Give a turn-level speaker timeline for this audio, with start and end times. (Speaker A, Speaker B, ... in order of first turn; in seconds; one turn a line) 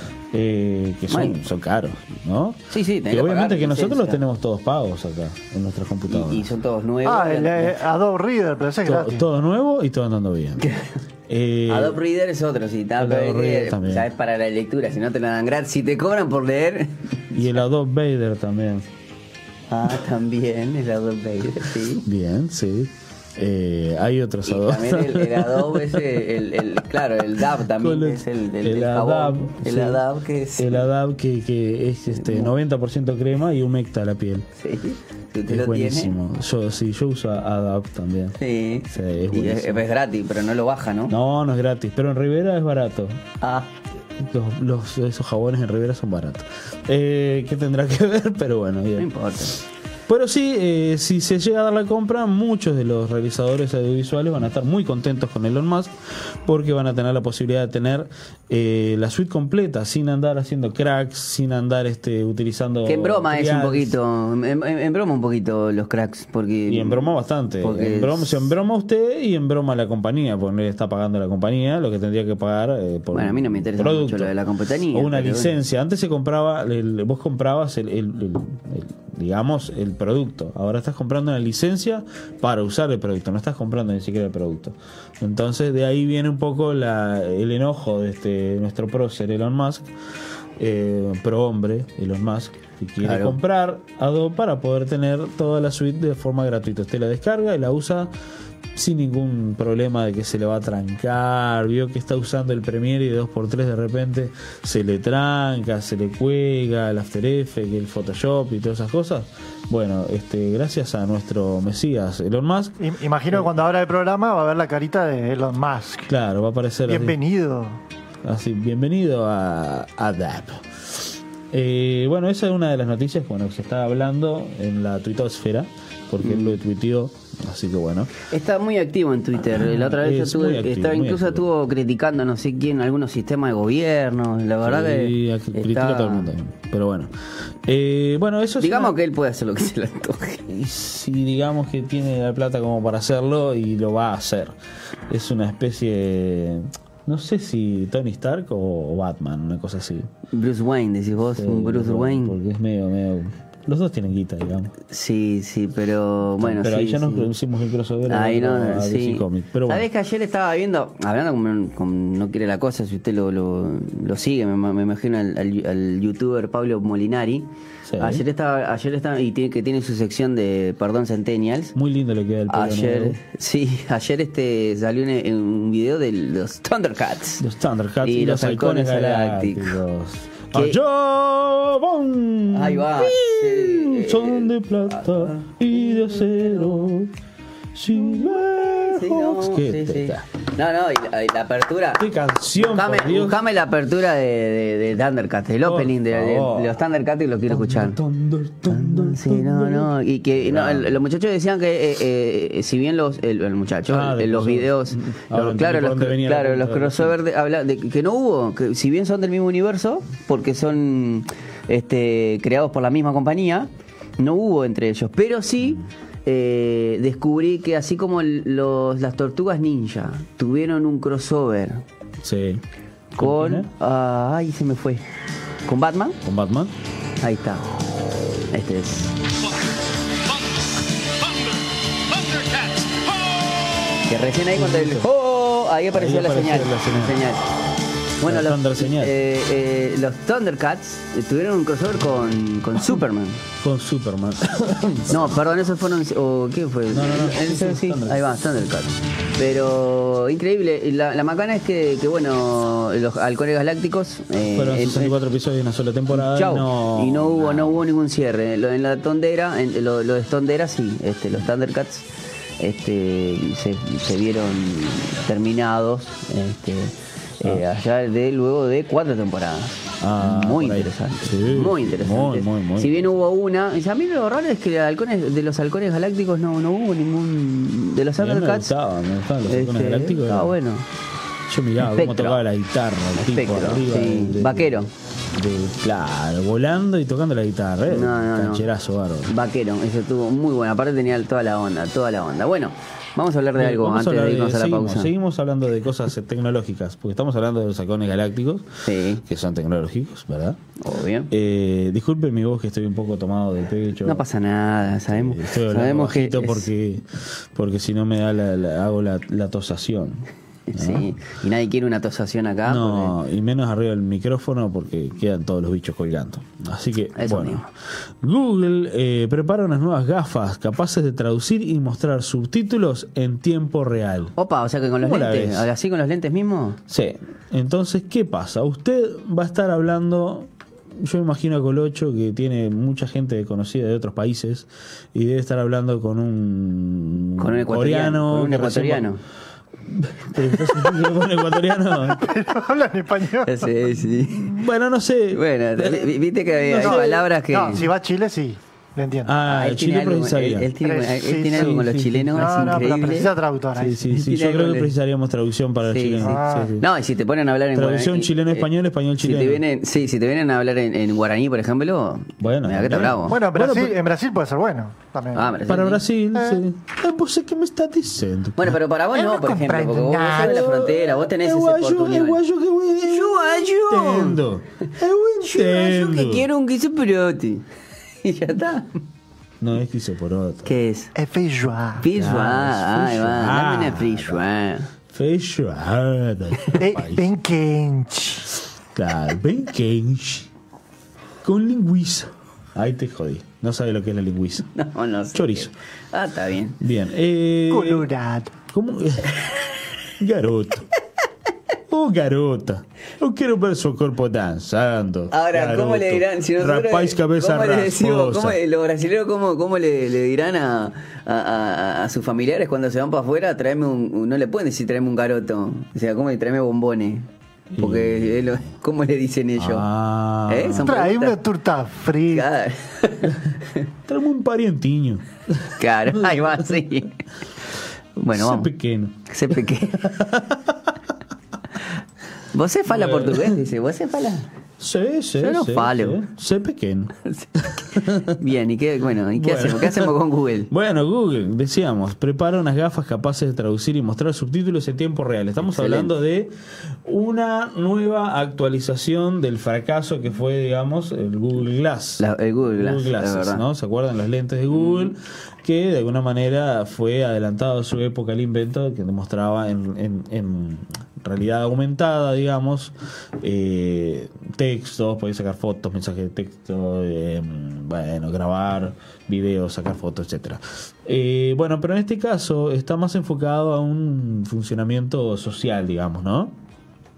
Speaker A: 0.3-6.5
Speaker B: 1.1-1.4
Speaker B: 2.7-4.2
Speaker B: 6.1-7.8
Speaker C: 7.0-9.3
Speaker A: 8.8-10.7
Speaker A: 11.3-12.0
Speaker B: 11.7-17.6
Speaker A: 13.0-14.1
Speaker A: 17.4-18.9
Speaker B: 19.7-22.1
Speaker A: 22.0-26.2
Speaker B: 24.5-30.9
Speaker A: 27.6-30.0
Speaker A: 30.6-34.5
Speaker B: 32.1-32.5
Speaker B: 34.6-36.2
Speaker A: 35.5-39.8
Speaker B: 38.4-41.1
Speaker A: 41.1-43.2
Speaker B: 43.4-43.7
Speaker A: 44.2-55.9
Speaker B: 49.0-49.6
Speaker A: 56.4-64.0
Speaker B: 62.9-68.5
Speaker A: 66.7-74.3
Speaker B: 73.1-75.6
Speaker A: 74.9-89.9
Speaker A: 90.6-98.1
Speaker B: 93.0-93.4
Speaker A: 98.8-112.8
Speaker C: 112.8-116.1
Speaker A: 116.1-117.2
Speaker C: 116.9-117.8
Speaker A: 118.2-128.1
Speaker B: 126.2-126.6
Speaker B: 128.3-136.3
Speaker A: 129.5-131.5
Speaker A: 134.6-137.1
Speaker A: 137.7-138.9
Speaker B: 138.6-140.5
Speaker A: 140.5-144.6
Speaker A: 145.1-150.1
Speaker B: 150.3-152.4
Speaker A: 151.2-154.8
Speaker B: 154.9-157.3
Speaker A: 156.4-159.9
Speaker B: 158.1-167.5
Speaker A: 167.9-168.3
Speaker B: 168.0-171.7
Speaker A: 171.7-173.2
Speaker B: 172.5-177.4
Speaker A: 177.4-187.1
Speaker B: 178.0-179.8
Speaker B: 180.5-180.8
Speaker B: 182.5-185.5
Speaker A: 187.8-190.3
Speaker B: 188.9-198.0
Speaker A: 192.0-193.4
Speaker A: 195.6-196.8
Speaker A: 197.5-201.0
Speaker B: 198.7-221.8
Speaker A: 203.9-207.2
Speaker A: 222.2-222.6
Speaker B: 223.2-225.0
Speaker A: 223.2-223.7
Speaker B: 225.7-226.2
Speaker A: 226.2-226.7
Speaker B: 227.2-227.6
Speaker B: 228.5-229.2
Speaker B: 234.1-237.4
Speaker A: 234.5-235.1
Speaker A: 235.9-237.2
Speaker B: 238.2-243.4
Speaker A: 238.2-239.2
Speaker A: 243.6-245.3
Speaker B: 245.1-255.2
Speaker A: 246.9-248.2
Speaker A: 254.5-257.8
Speaker B: 256.1-262.1
Speaker B: 262.6-278.8
Speaker A: 270.0-273.0
Speaker A: 278.2-280.6
Speaker B: 279.5-280.9
Speaker A: 281.5-284.8
Speaker B: 281.8-282.4
Speaker B: 283.2-284.9
Speaker A: 285.4-289.3
Speaker B: 287.9-288.7
Speaker B: 289.3-295.1
Speaker A: 293.6-298.7
Speaker B: 298.8-299.2
Speaker A: 299.2-300.6
Speaker B: 300.8-301.3
Speaker A: 301.3-304.2
Speaker B: 304.1-306.7
Speaker A: 304.9-311.1
Speaker B: 310.7-313.1
Speaker A: 312.7-317.7
Speaker B: 317.2-317.7
Speaker A: 318.2-324.3
Speaker B: 324.4-326.8
Speaker A: 325.0-325.7
Speaker A: 326.9-330.5
Speaker A: 331.0-339.1
Speaker B: 337.4-339.2
Speaker A: 339.9-342.3
Speaker C: 342.1-343.7
Speaker B: 343.4-344.6
Speaker A: 344.2-346.1
Speaker B: 345.3-347.8
Speaker A: 346.6-347.1
Speaker C: 346.8-349.3
Speaker A: 349.2-350.7
Speaker B: 349.5-353.3
Speaker C: 350.8-351.8
Speaker A: 351.3-353.1
Speaker C: 352.4-354.0
Speaker A: 353.8-356.9
Speaker B: 354.1-354.9
Speaker B: 355.8-363.4
Speaker C: 356.2-356.7
Speaker A: 357.7-359.6
Speaker A: 362.4-363.9
Speaker C: 363.3-365.5
Speaker B: 365.3-366.0
Speaker A: 365.7-368.8
Speaker B: 368.6-372.4
Speaker C: 369.1-370.5
Speaker A: 370.3-376.5
Speaker B: 373.0-374.4
Speaker B: 375.4-377.6
Speaker B: 378.2-378.9
Speaker A: 379.6-380.7
Speaker B: 380.6-381.1
Speaker C: 381.1-382.1
Speaker B: 382.0-384.9
Speaker A: 382.0-384.4
Speaker A: 385.1-387.3
Speaker C: 386.8-388.5
Speaker A: 388.9-390.5
Speaker A: 391.4-394.7
Speaker B: 394.8-396.8
Speaker A: 395.3-395.7
Speaker A: 396.8-398.1
Speaker C: 397.7-398.5
Speaker A: 398.7-399.5
Speaker A: 400.2-400.9
Speaker A: 401.9-408.6
Speaker B: 405.3-417.3
Speaker A: 417.7-418.6
Speaker B: 417.8-419.9
Speaker A: 419.6-421.0
Speaker B: 420.5-421.4
Speaker C: 420.8-422.5
Speaker B: 422.3-423.4
Speaker A: 424.1-426.7
Speaker B: 425.8-427.1
Speaker B: 428.2-428.7
Speaker A: 428.3-430.9
Speaker B: 429.3-430.1
Speaker B: 432.5-434.5
Speaker A: 432.9-433.6
Speaker A: 434.8-438.4
Speaker B: 435.4-436.2
Speaker B: 437.2-440.7
Speaker A: 439.3-440.1
Speaker A: 440.7-446.5
Speaker B: 445.6-446.1
Speaker A: 447.1-476.5
Speaker B: 452.2-453.6
Speaker B: 454.7-455.1